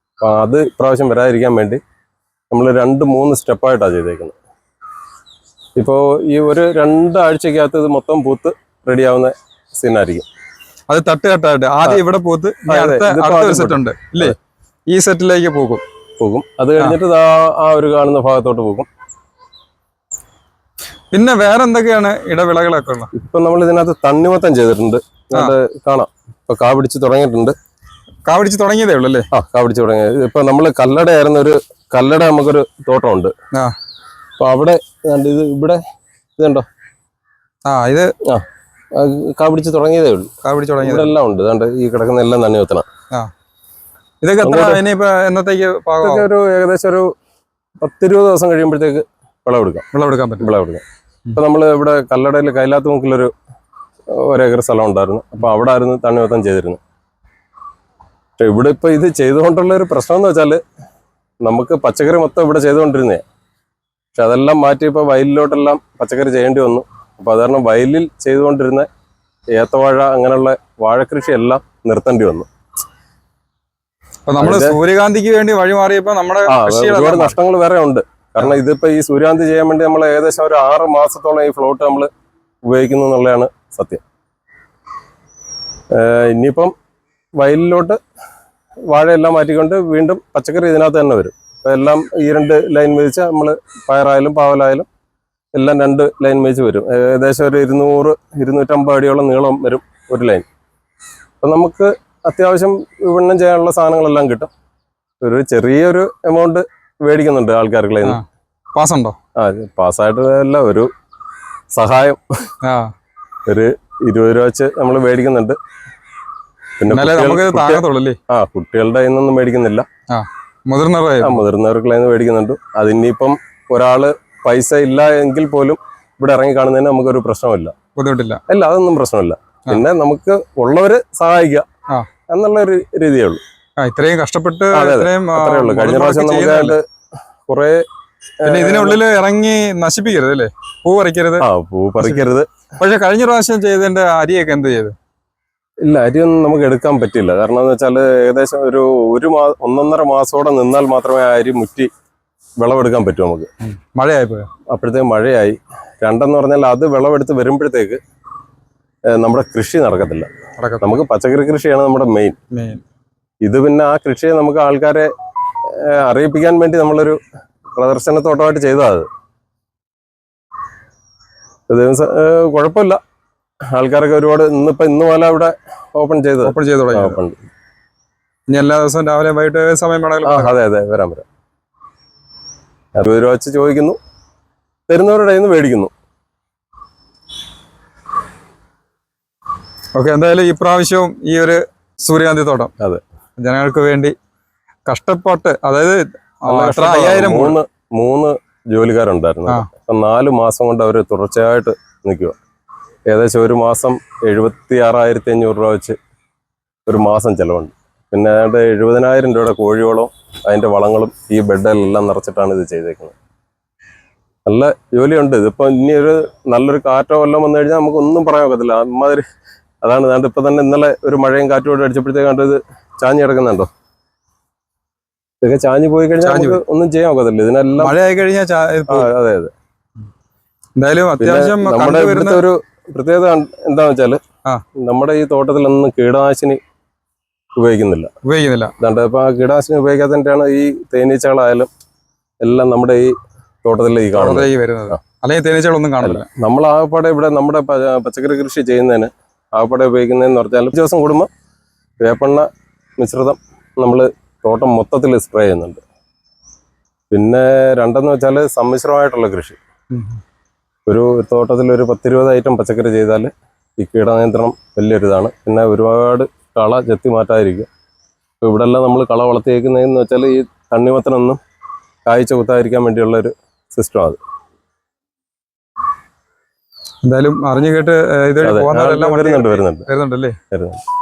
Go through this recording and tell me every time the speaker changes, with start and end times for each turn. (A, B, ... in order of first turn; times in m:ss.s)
0:00.2-0:01.8 A
0:02.5-0:04.3 A
0:05.8-0:10.2 A
0:10.9-0:14.4 B
0:12.6-0:14.4 A
0:14.9-0:15.8 B
0:16.2-0:18.9 A
0:21.1-0:23.1 B
0:23.1-0:27.5 A
0:28.2-0:29.3 B
0:29.3-0:33.3 A
0:34.4-0:35.8 A
0:36.4-0:36.6 A
0:37.6-0:38.1 B
0:38.2-0:42.8 A
0:40.4-0:41.1 B
0:44.2-0:46.2 B
0:44.4-0:44.8 A
0:46.0-0:47.1 A
0:47.8-0:49.8 A
0:49.9-0:50.5 B
0:50.4-0:50.8 A
0:51.3-0:53.3 A
0:54.1-0:56.8 A
0:58.4-1:00.6 A
1:01.4-1:03.2 A
1:04.1-1:08.9 A
1:09.5-1:12.5 A
1:14.2-1:17.4 B
1:14.4-1:14.8 A
1:16.5-1:22.1 A
1:22.6-1:24.0 A
1:25.9-1:26.7 A
1:27.4-1:28.0 A
1:28.9-1:34.8 A
1:35.5-1:40.4 A
1:41.4-1:44.5 A
1:45.2-1:48.2 A
1:48.7-1:49.2 B
1:49.4-1:50.9 A
1:51.7-1:52.2 A
1:52.6-1:52.9 B
1:53.5-1:55.6 A
1:56.8-1:59.8 A
1:56.9-1:58.2 B
2:00.1-2:01.4 B
2:01.2-2:07.7 A
2:08.0-2:08.4 B
2:08.5-2:11.6 A
2:12.3-2:13.4 A
2:13.8-2:16.8 B
2:14.7-2:16.8 A
2:17.5-2:17.8 A
2:18.4-2:19.0 A
2:18.4-2:21.4 B
2:21.4-2:22.5 A
2:22.0-2:24.9 B
2:25.8-2:31.9 A
2:32.6-2:33.5 A
2:33.7-2:34.5 B
2:34.7-2:38.0 A
2:39.1-2:40.3 A
2:40.6-2:41.0 B
2:40.8-2:42.4 A
2:42.5-2:42.8 B
2:43.4-2:45.1 A
2:45.6-2:47.2 A
2:47.7-2:49.1 A
2:51.7-2:53.0 A
2:53.7-2:57.4 A
2:56.4-2:57.2 B
2:58.5-3:00.5 B
3:00.2-3:01.2 A
3:03.0-3:04.0 A
3:04.9-3:05.9 A
3:09.9-3:12.7 B
3:13.4-3:14.1 B
3:14.8-3:17.6 B
3:16.5-3:22.4 A
3:23.1-3:26.0 A
3:26.8-3:33.1 A
3:34.4-3:39.2 A
3:39.8-3:43.7 A
3:45.4-3:47.9 A
3:46.2-3:46.6 B
3:47.8-3:49.1 B
3:48.9-3:49.5 A
3:50.8-3:52.4 B
3:51.2-3:54.2 A
3:54.8-3:56.6 A
3:57.6-3:58.1 A
3:58.2-3:58.7 B
3:58.8-4:01.7 A
4:02.4-4:05.0 A
4:04.1-4:06.3 B
4:06.0-4:11.3 A
4:12.0-4:15.8 A
4:17.1-4:19.6 A
4:19.9-4:20.2 B
4:20.8-4:27.7 A
4:28.4-4:31.4 A
4:32.0-4:34.2 A
4:37.0-4:40.4 B
4:38.4-4:39.9 A
4:40.5-4:40.8 A